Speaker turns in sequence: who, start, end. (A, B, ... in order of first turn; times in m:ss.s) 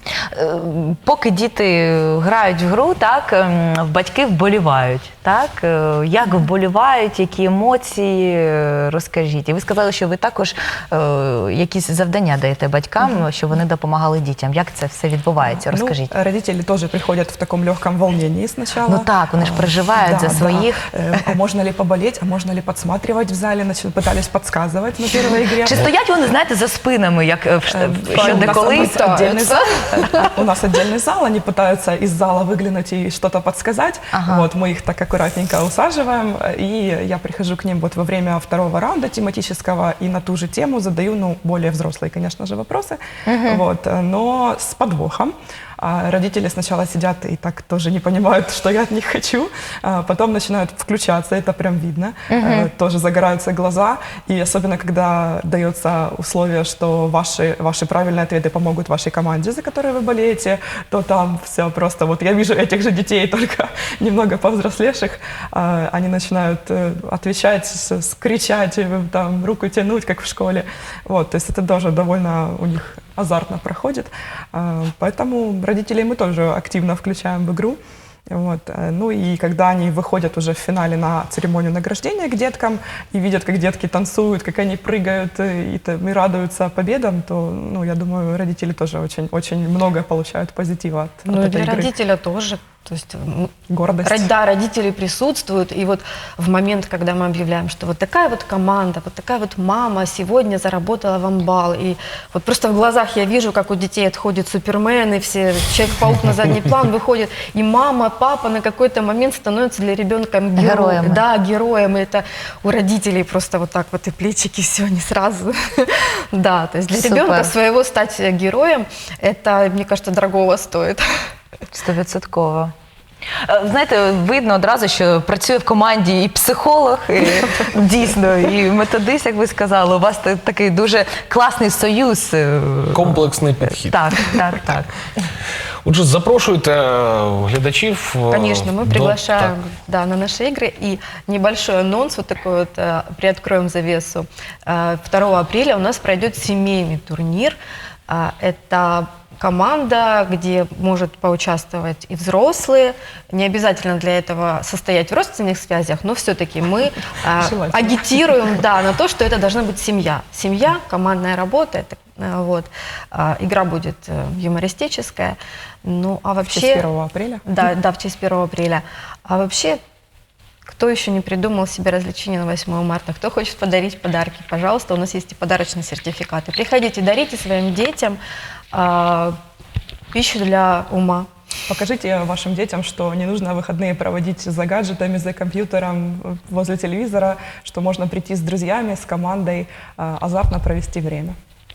0:00.3-0:16.1 A
0:15.6-0:25.8 B
0:18.9-0:20.8 A
0:25.6-0:30.2 A
0:27.7-1:17.8 B
0:28.1-0:30.3 C
0:34.1-0:34.5 A
0:43.2-0:43.6 A
0:52.3-0:52.7 A
1:18.3-1:31.9 B
1:31.3-1:33.5 C
1:33.7-1:34.3 B
1:34.0-2:01.1 C
1:50.6-1:51.2 A
1:56.9-1:57.5 A
2:01.7-2:02.7 A
2:03.4-2:13.1 A
2:12.9-2:14.4 D
2:13.9-2:15.1 A
2:15.8-2:19.5 D
2:18.3-2:27.6 C
2:28.1-2:46.9 C
2:37.4-2:38.6 B
2:46.5-2:47.7 B
2:47.5-2:49.8 C
2:50.7-2:58.2 C
2:58.7-2:59.4 C
3:00.1-3:01.3 C
3:01.7-3:11.4 B